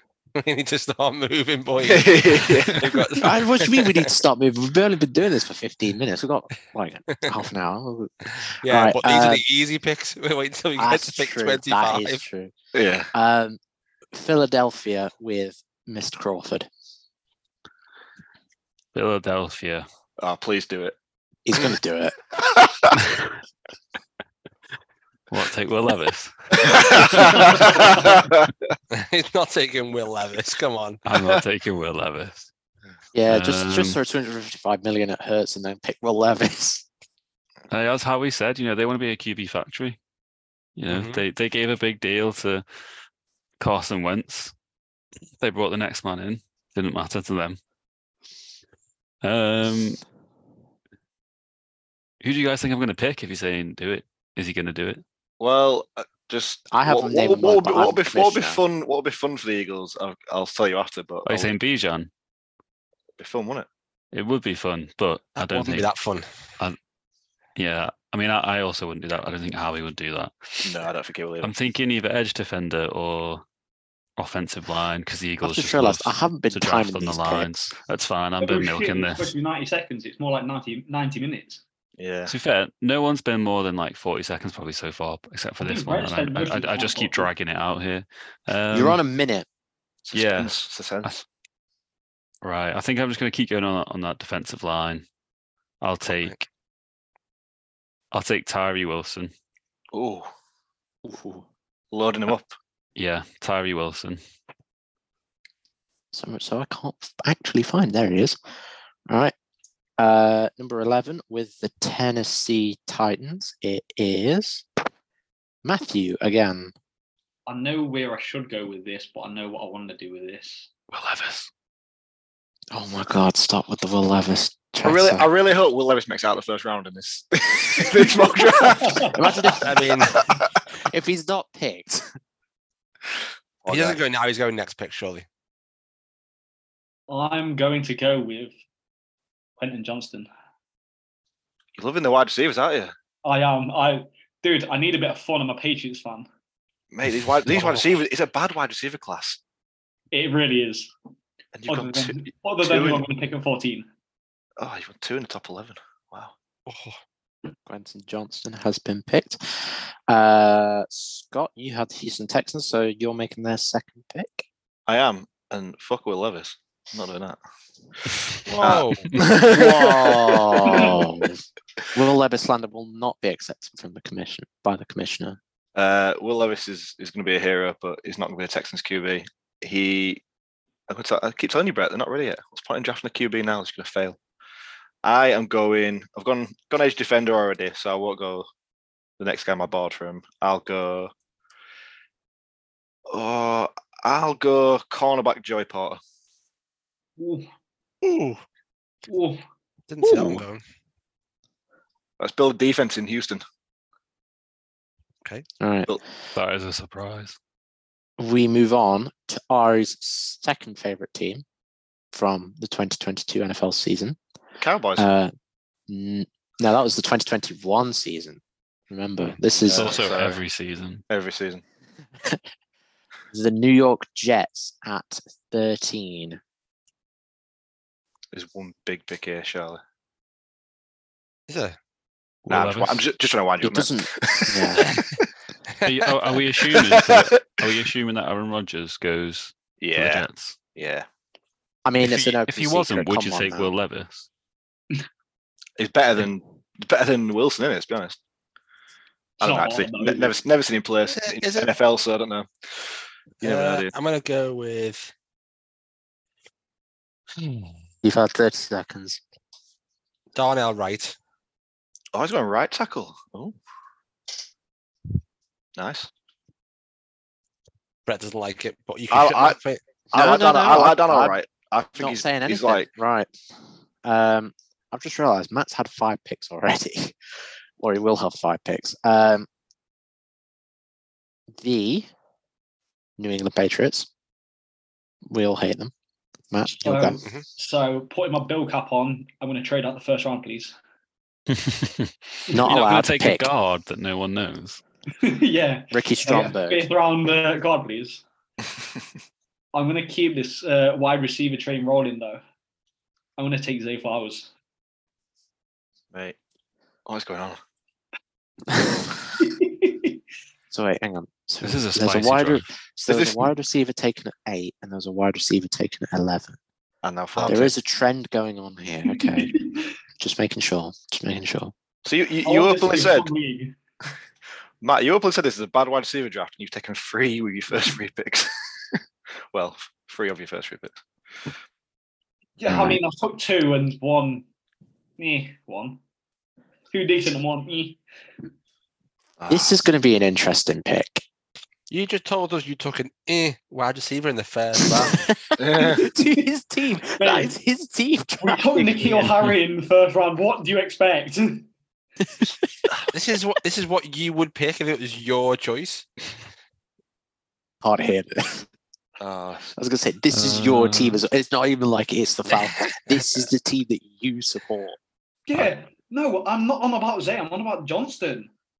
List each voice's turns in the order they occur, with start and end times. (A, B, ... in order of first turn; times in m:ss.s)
0:00.4-0:04.1 A
0:01.8-0:02.9 B
0:03.2-0:08.1 C
0:08.4-0:12.2 A
0:08.6-0:09.4 C
0:10.8-0:12.5 C
0:12.7-0:13.1 B
0:13.1-0:13.6 C
0:14.1-0:16.7 C
0:18.9-0:19.8 D
0:20.2-0:21.0 B
0:21.4-0:22.1 C
0:22.4-0:22.9 B
0:25.3-0:27.8 D
0:26.6-0:28.5 B
0:28.9-0:31.0 A
0:31.0-0:32.5 D
0:33.1-0:36.8 C
0:33.3-0:34.0 D
0:37.7-0:40.0 D
0:40.8-0:42.6 D
0:40.9-0:41.2 A
0:43.6-0:44.5 D
0:45.4-0:47.6 D
0:49.2-0:50.0 D
0:52.2-0:55.0 D
0:55.4-1:01.5 B
0:56.7-0:58.6 C
1:01.2-1:02.1 D
1:03.2-1:03.7 B
1:04.1-1:05.9 D
1:05.4-1:06.3 A
1:07.6-1:10.7 D
1:10.6-1:11.5 B
1:11.4-1:13.4 D
1:14.2-1:19.3 D
1:15.4-1:17.5 C
1:18.4-1:21.6 E
1:22.0-1:22.3 B
1:22.3-1:29.0 D
1:25.6-1:27.3 E
1:28.7-1:29.4 C
1:30.1-1:31.1 B
1:30.1-1:30.5 D
1:32.4-1:35.0 D
1:35.8-1:36.4 D
1:38.1-1:39.3 D
1:39.9-1:40.3 B
1:41.0-1:41.4 C
1:41.9-1:42.5 B
1:43.0-1:44.2 D
1:46.1-1:48.4 C
1:49.1-1:49.3 C
1:50.0-1:54.6 C
1:55.6-1:56.7 C
1:57.5-2:00.7 E
2:00.9-2:01.5 D
2:02.7-2:05.3 C
2:04.8-2:09.1 B
2:08.5-2:09.2 E
2:09.1-2:09.8 C
2:09.6-2:10.2 A
2:10.1-2:10.5 B
2:10.8-2:12.0 C
2:13.6-2:14.0 B
2:13.7-2:15.2 A
2:17.1-2:18.5 E
2:19.6-2:20.3 E
2:21.8-2:22.9 B
2:23.2-2:26.2 E
2:26.9-2:29.4 B
2:27.5-2:27.8 A
2:30.1-2:30.9 E
2:31.5-2:33.1 B
2:31.7-2:33.8 E
2:34.6-2:36.3 B
2:36.7-2:37.0 A
2:37.6-2:44.5 C
2:44.9-2:47.4 B
2:48.4-2:49.1 A
2:48.6-2:51.0 B
2:49.4-2:51.4 C
2:50.7-2:51.0 E
2:51.9-2:55.4 C
2:55.7-3:00.2 B
3:00.9-3:04.2 B
3:05.0-3:08.5 B
3:09.2-3:11.1 B
3:13.1-3:16.0 B
3:17.2-3:17.5 E
3:18.0-3:18.4 A
3:19.1-3:19.4 E
3:19.9-3:20.6 A
3:22.2-3:23.4 B
3:25.6-3:25.9 C
3:26.3-3:27.4 D
3:28.2-3:31.4 C
3:32.1-3:34.2 C
3:34.6-3:35.1 B
3:35.0-3:35.3 C
3:35.9-3:40.0 C
3:39.6-3:40.4 B
3:39.7-3:41.0 D
3:41.1-3:41.6 B
3:43.3-3:46.4 C
3:48.3-3:49.8 B
3:51.5-3:51.8 A
3:52.4-3:53.0 D
3:52.5-3:54.9 B
3:53.6-3:55.0 C
3:55.8-4:00.6 D
3:56.7-3:57.3 B
3:59.8-4:01.0 B
4:01.8-4:03.7 C
4:02.0-4:04.3 D
4:05.8-4:08.2 B
4:09.4-4:12.9 B
4:09.4-4:10.3 E
4:11.1-4:11.7 A
4:13.4-4:15.1 A
4:13.4-4:13.9 B
4:17.4-4:17.7 A
4:18.0-4:19.2 C
4:20.3-4:21.1 A
4:22.1-4:23.5 B
4:25.8-4:26.1 B
4:28.0-4:29.8 A
4:29.1-4:29.6 B
4:30.1-4:31.4 C
4:30.1-4:32.9 B
4:32.0-4:33.3 C
4:34.0-4:37.2 C
4:37.8-4:39.5 C
4:41.5-4:42.1 C
4:43.2-4:44.1 C
4:45.3-4:45.9 C
4:46.5-4:47.2 C
4:46.6-4:50.8 E
4:47.2-4:47.4 A
4:51.5-4:54.8 D
4:52.5-4:53.5 C
4:55.2-4:58.2 E
4:55.9-4:56.8 C
4:58.6-4:59.0 B
4:59.7-5:02.4 E
5:03.4-5:04.5 E
5:07.1-5:07.6 B
5:08.7-5:09.1 C
5:09.5-5:10.2 E
5:10.7-5:16.6 C
5:11.6-5:12.7 D
5:13.1-5:13.4 B
5:17.0-5:17.7 B
5:17.4-5:17.6 A
5:17.4-5:19.5 C
5:19.1-5:19.9 E
5:20.2-5:21.7 C
5:22.0-5:23.3 B
5:22.4-5:23.7 E
5:24.8-5:28.5 B
5:29.5-5:31.0 B
5:32.6-5:34.4 E
5:32.7-5:33.0 B
5:35.2-5:36.0 E
5:36.9-5:38.0 E
5:39.4-5:39.8 B
5:39.5-5:41.2 C
5:41.9-5:45.3 A
5:44.8-5:49.3 C
5:45.6-5:46.1 B
5:47.2-5:47.5 E
5:48.4-5:51.7 E
5:53.1-5:56.1 A
5:57.8-5:58.7 C
5:59.2-5:59.7 B
5:59.8-6:05.0 C
6:00.3-6:01.2 D
6:02.6-6:03.0 A
6:05.5-6:08.5 E